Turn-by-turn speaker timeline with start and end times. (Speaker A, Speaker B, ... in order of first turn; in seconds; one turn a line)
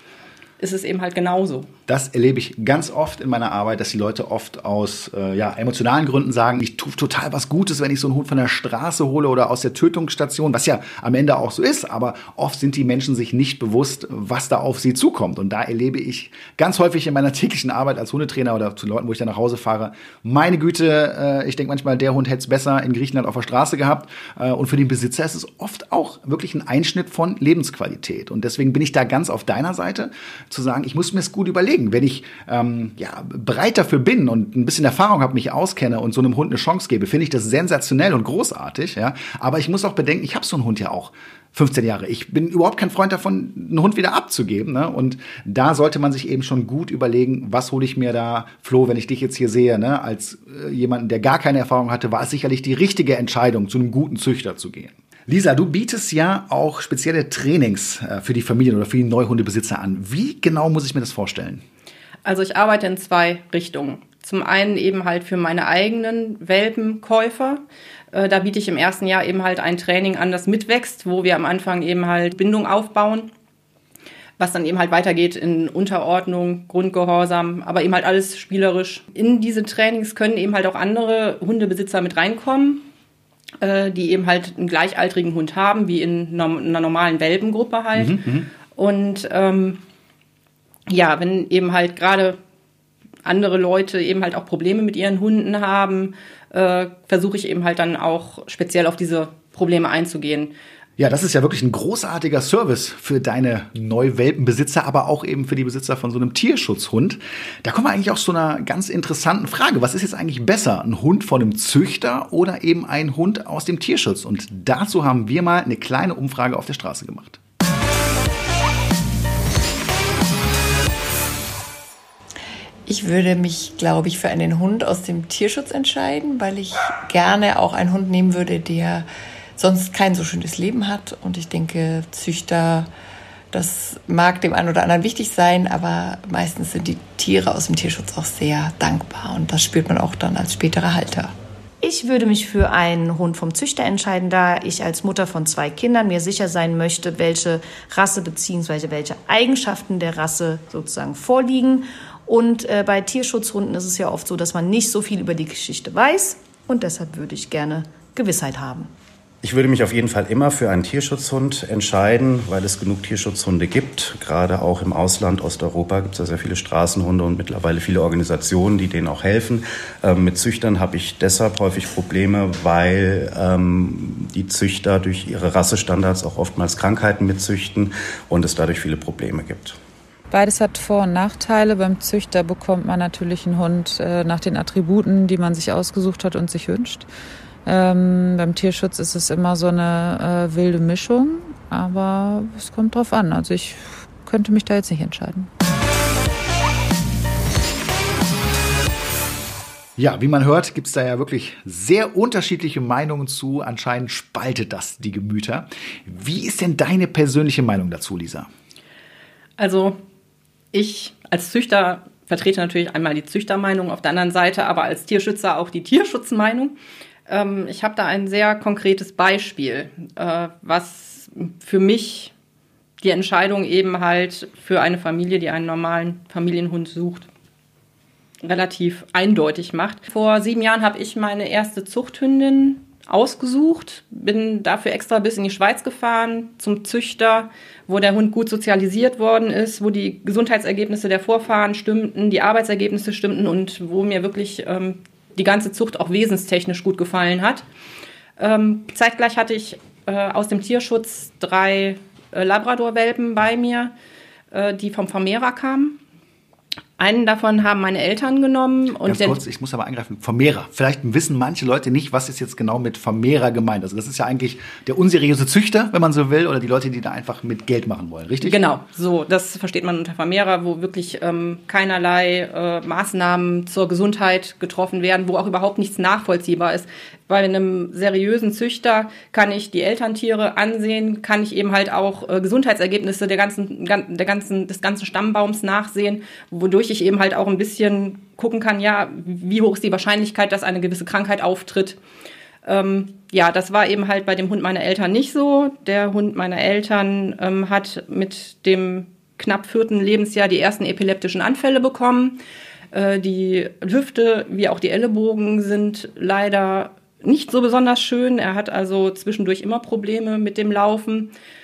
Speaker A: 0.6-1.7
Speaker B: 1.9-61.6
Speaker A: 62.2-73.3
Speaker A: 74.4-82.8
Speaker A: 83.6-89.8
Speaker B: 87.9-88.5
Speaker A: 90.9-92.4
Speaker A: 93.2-100.5
Speaker B: 101.0-117.4
Speaker C: 122.8-129.1
Speaker C: 129.6-132.9
Speaker C: 133.5-141.3
Speaker D: 141.8-158.9
Speaker E: 159.4-179.8
Speaker F: 180.3-187.1
Speaker F: 187.6-195.5
Speaker B: 200.0-208.5
Speaker A: 209.6-210.0
Speaker A: 210.7-216.8
Speaker A: 217.3-222.3
Speaker A: 223.0-227.3
Speaker A: 228.4-247.6
Speaker A: 248.4-253.9
Speaker A: 254.5-256.0
Speaker A: 257.0-259.4
Speaker B: 259.0-268.6
Speaker A: 268.4-292.0
Speaker A: 292.6-302.4
Speaker A: 302.9-311.3